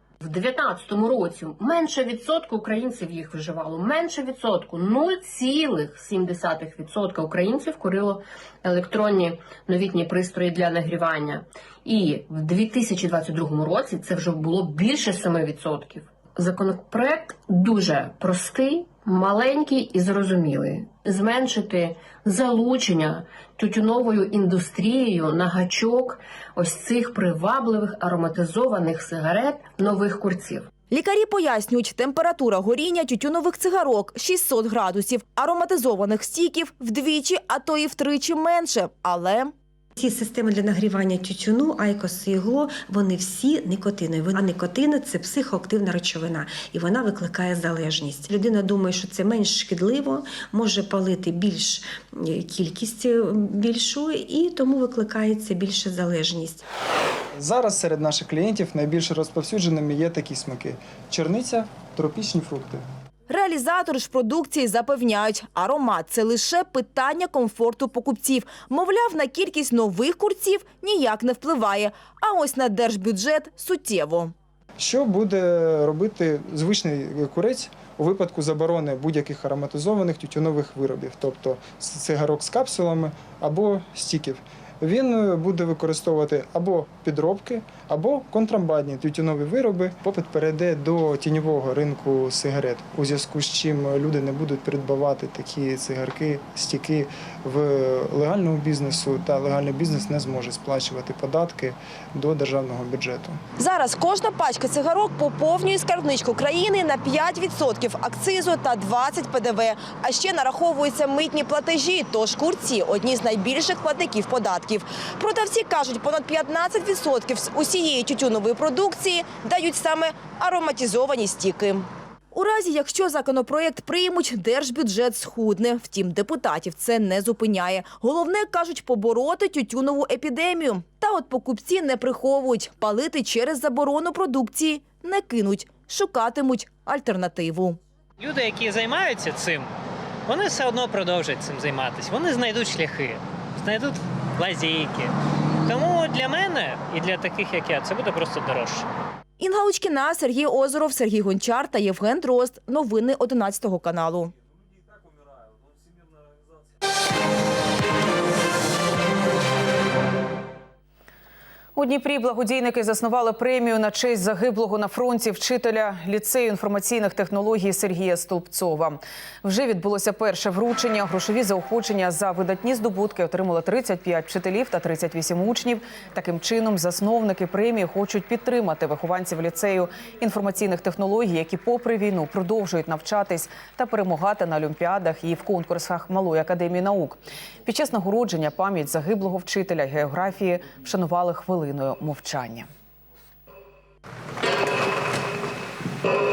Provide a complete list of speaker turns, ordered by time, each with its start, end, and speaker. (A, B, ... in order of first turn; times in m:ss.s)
0:00.2-0:30.7 A
0:30.9-0:39.5 B
0:40.0-0:56.6 C
0:57.4-1:02.8 D
1:03.3-1:14.3 B
1:14.8-1:43.4 D
1:43.6-2:17.8 B
2:18.2-2:19.7 E
2:20.3-2:25.1 E
2:25.6-2:28.9 E
2:29.4-2:34.3 B
2:41.8-3:12.6 F